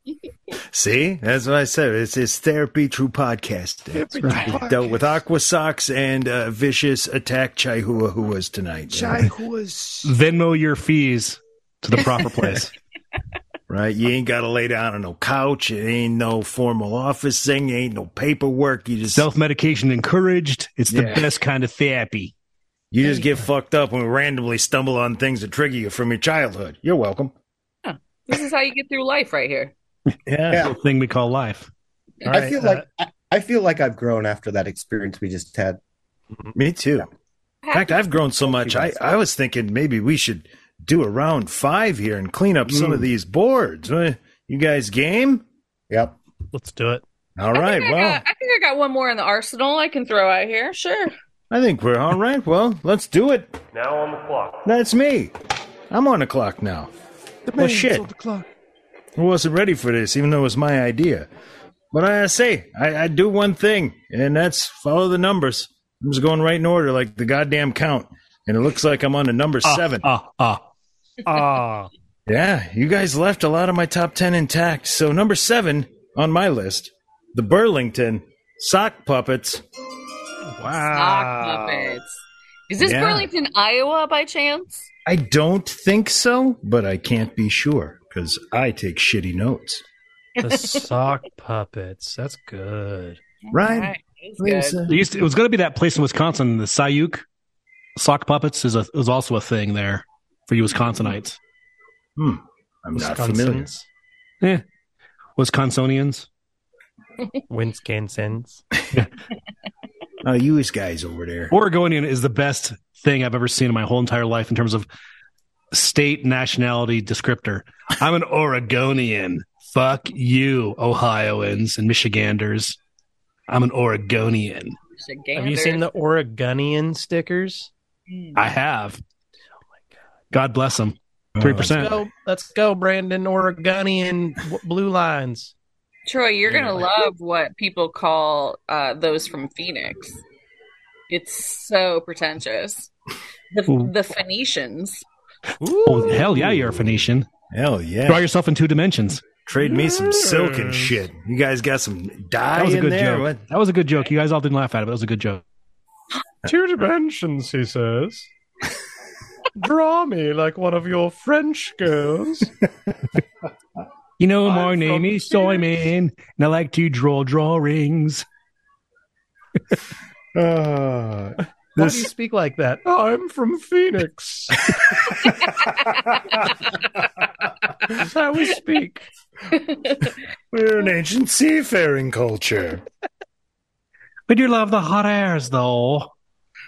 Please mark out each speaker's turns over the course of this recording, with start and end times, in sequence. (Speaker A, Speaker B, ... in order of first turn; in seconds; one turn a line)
Speaker A: 0.7-9.3
Speaker B: 3.9-5.0
Speaker C: 4.2-4.5
Speaker B: 8.9-10.1
Speaker C: 10.0-12.7
Speaker A: 13.7-19.3
Speaker C: 19.1-22.3
Speaker A: 20.9-21.3
Speaker A: 22.9-27.3
Speaker D: 27.8-29.7
Speaker A: 30.2-30.7
Speaker C: 30.6-31.7
Speaker E: 32.2-32.8
Speaker F: 32.3-35.8
Speaker A: 36.5-37.1
Speaker D: 37.6-38.0
Speaker A: 37.7-45.4
Speaker F: 42.7-43.1
Speaker F: 45.9-46.2
Speaker E: 46.5-47.0
Speaker A: 47.4-48.2
Speaker D: 47.5-51.1
Speaker A: 51.5-53.6
Speaker A: 54.6-55.3
Speaker A: 55.9-56.9
Speaker B: 57.5-58.5
Speaker A: 57.6-58.1
Speaker A: 59.1-61.3
Speaker A: 61.9-70.1
Speaker C: 69.6-70.6
Speaker E: 71.2-71.9
Speaker A: 72.3-79.6
Speaker E: 80.5-82.0
Speaker D: 80.8-84.9
Speaker A: 82.8-83.3
Speaker A: 85.0-89.8
Speaker D: 90.4-90.9
Speaker E: 90.4-93.2
Speaker D: 93.5-94.8
Speaker A: 93.5-95.0
Speaker C: 94.9-97.2
Speaker C: 98.0-101.4
Speaker A: 102.2-103.7
Speaker E: 102.9-103.8
Speaker C: 105.3-106.3
Speaker E: 107.5-108.6
Speaker A: 110.2-111.5
Speaker C: 111.5-114.9
Speaker C: 115.7-122.8
Speaker C: 123.5-124.8
Speaker D: 125.0-125.9
Speaker E: 125.3-127.7
Speaker D: 128.1-128.4
Speaker C: 128.3-129.0
Speaker C: 130.3-132.0
Speaker A: 131.3-131.7
Speaker E: 131.6-135.5
Speaker D: 136.1-140.2
Speaker A: 136.5-136.7
Speaker D: 141.1-142.9
Speaker D: 143.5-145.0
Speaker E: 145.6-146.2
Speaker C: 145.8-147.3
Speaker A: 146.1-148.3
Speaker C: 148.1-149.3
Speaker A: 149.4-153.4
Speaker E: 149.6-150.9
Speaker C: 152.6-155.4
Speaker E: 156.4-158.3
Speaker E: 159.6-162.5
Speaker C: 164.2-168.2
Speaker E: 164.4-165.6
Speaker A: 170.3-172.1
Speaker E: 171.8-174.7
Speaker A: 174.8-176.5
Speaker E: 177.9-179.1
Speaker D: 179.5-180.1
Speaker A: 180.5-182.8
Speaker C: 184.3-186.1